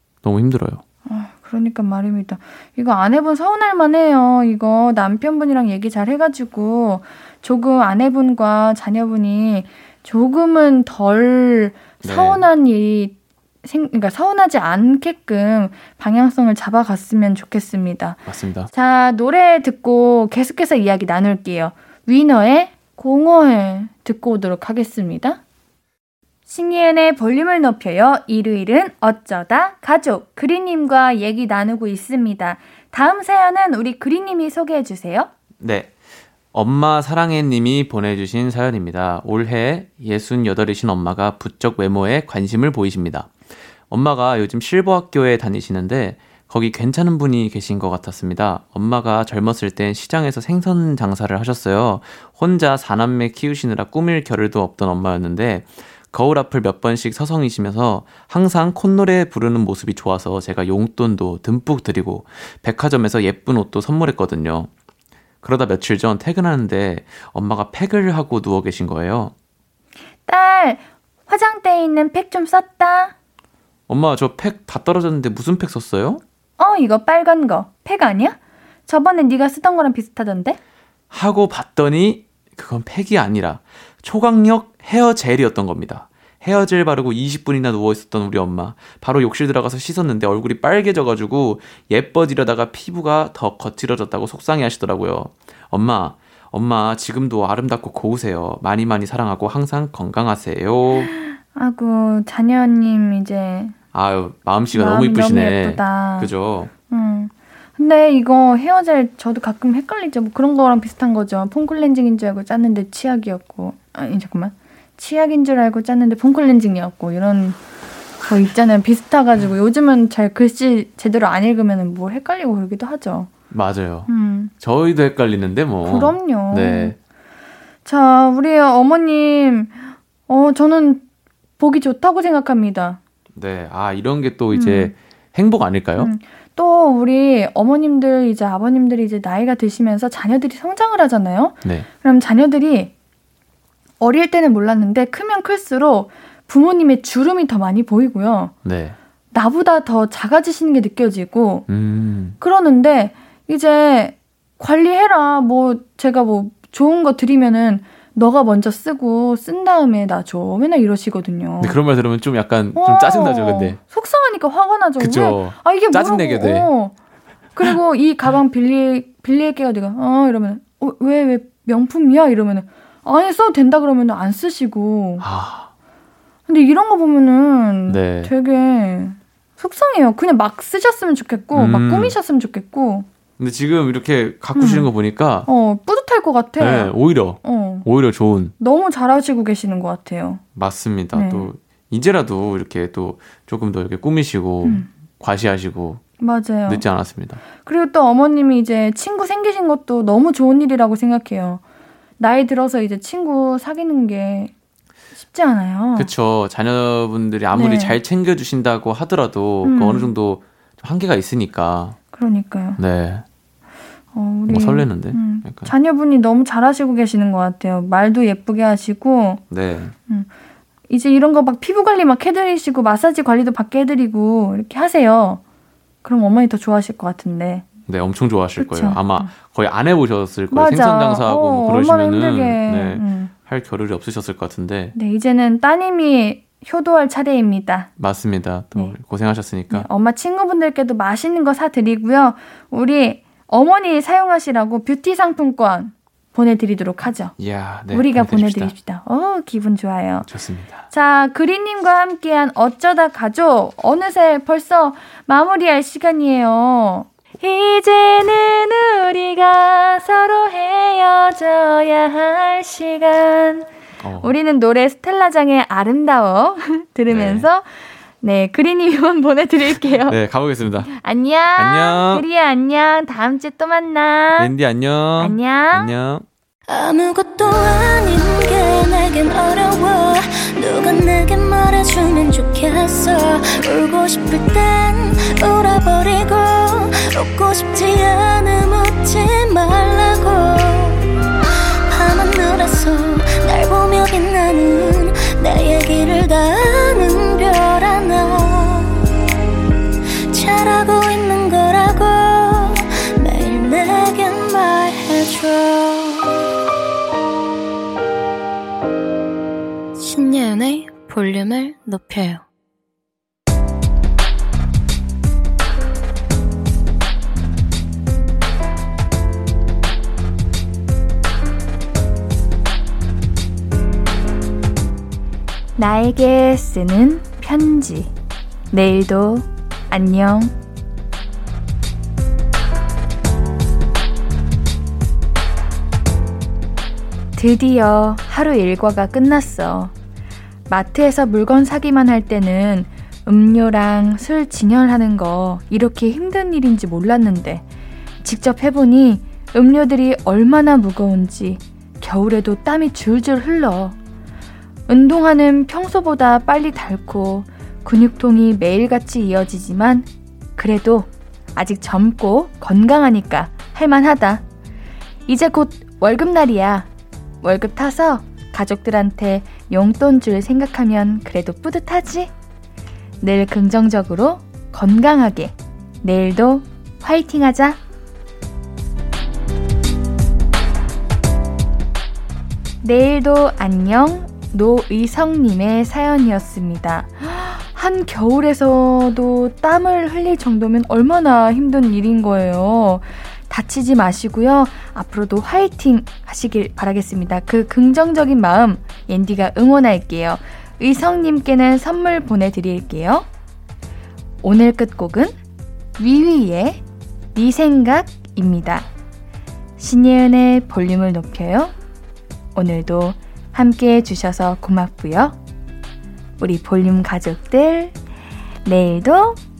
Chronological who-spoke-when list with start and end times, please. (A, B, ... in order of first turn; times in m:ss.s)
0:00.2-0:00.8 A
0:01.0-0:25.4 B
0:12.0-0:12.4 A
0:18.3-0:18.7 A
0:26.5-0:35.3 B
0:35.6-0:35.9 A
0:36.5-0:43.3 A
0:43.9-1:04.7 A
1:05.4-1:09.3 A
1:10.2-1:13.1 B
1:13.9-1:16.2 A
1:16.6-1:20.6 B
1:21.1-1:41.1 A
1:41.0-1:43.7 B
1:43.9-1:46.7 A
1:44.7-1:46.3 B
1:46.9-1:57.6 B
1:58.3-2:03.3 B
2:03.5-2:04.1 A
2:04.1-2:04.5 B
2:04.6-2:06.9 A
2:05.8-2:06.9 B
2:07.8-2:09.8 B
2:10.3-2:11.0 B
2:11.6-2:13.0 B
2:13.3-2:16.1 A
2:14.5-2:14.9 B
2:16.0-2:22.9 B
2:24.0-2:28.5 B
2:28.6-2:28.9 A
2:29.3-2:31.6 B
2:31.7-2:32.4 A
2:32.4-2:41.8 B
2:41.6-2:43.8 A
2:42.8-2:46.9 B
2:45.0-2:46.7 A
2:47.5-2:55.2 B
2:55.2-2:55.7 A
2:56.5-3:03.0 B
2:57.9-2:58.3 A
3:01.5-3:02.1 A
3:03.4-3:05.5 A
3:04.5-3:04.9 B
3:05.4-3:06.9 B
3:06.6-3:08.5 A
3:07.4-3:07.8 B
3:08.6-3:10.4 B
3:10.6-3:16.0 A
3:11.1-3:11.5 B
3:16.2-3:16.8 B
3:16.7-3:17.4 A
3:17.6-3:21.6 B
3:22.2-3:24.5 B
3:25.2-3:26.1 B
3:26.0-3:32.0 A
3:27.5-3:28.0 B
3:29.6-3:30.1 B
3:32.1-3:32.8 B
3:32.8-3:33.2 A
3:34.1-3:39.4 B
3:34.5-3:35.7 A
3:39.5-3:39.9 A
3:40.9-3:45.4 B
3:46.0-3:47.6 B
3:47.9-3:54.9 A
3:48.6-3:49.3 B
3:50.5-3:53.3 B
3:54.9-3:57.9 B
3:58.0-3:59.9 A
3:59.7-4:07.3 B
4:07.4-4:08.7 A
4:07.9-4:10.3 B
4:10.2-4:10.8 A
4:10.9-4:23.7 B
4:24.0-4:24.3 A
4:24.2-4:30.2 B
4:27.1-4:27.5 A
4:29.9-4:30.9 A
4:30.9-4:34.5 B
4:31.6-4:32.2 A
4:34.4-4:36.2 A
4:35.2-4:35.9 B
4:36.7-4:51.0 C
4:51.9-4:59.2 C
5:00.3-5:06.4 C
5:10.0-5:12.4 C
5:25.8-5:28.1 B
5:28.7-5:30.5 B
5:37.4-5:39.9 B
5:40.7-5:47.6 B
5:48.2-5:54.0 B
5:54.9-6:04.4 B
6:05.3-6:06.9 B
6:07.4-6:12.3 B
6:13.2-6:17.8 B
6:22.8-6:43.2 B
6:44.4-6:45.3 B
6:46.0-6:46.8 B
6:47.3-6:48.9 B
6:49.8-6:51.7 B
6:52.5-6:55.4 B
6:56.4-6:57.9 B
6:58.6-6:59.4 B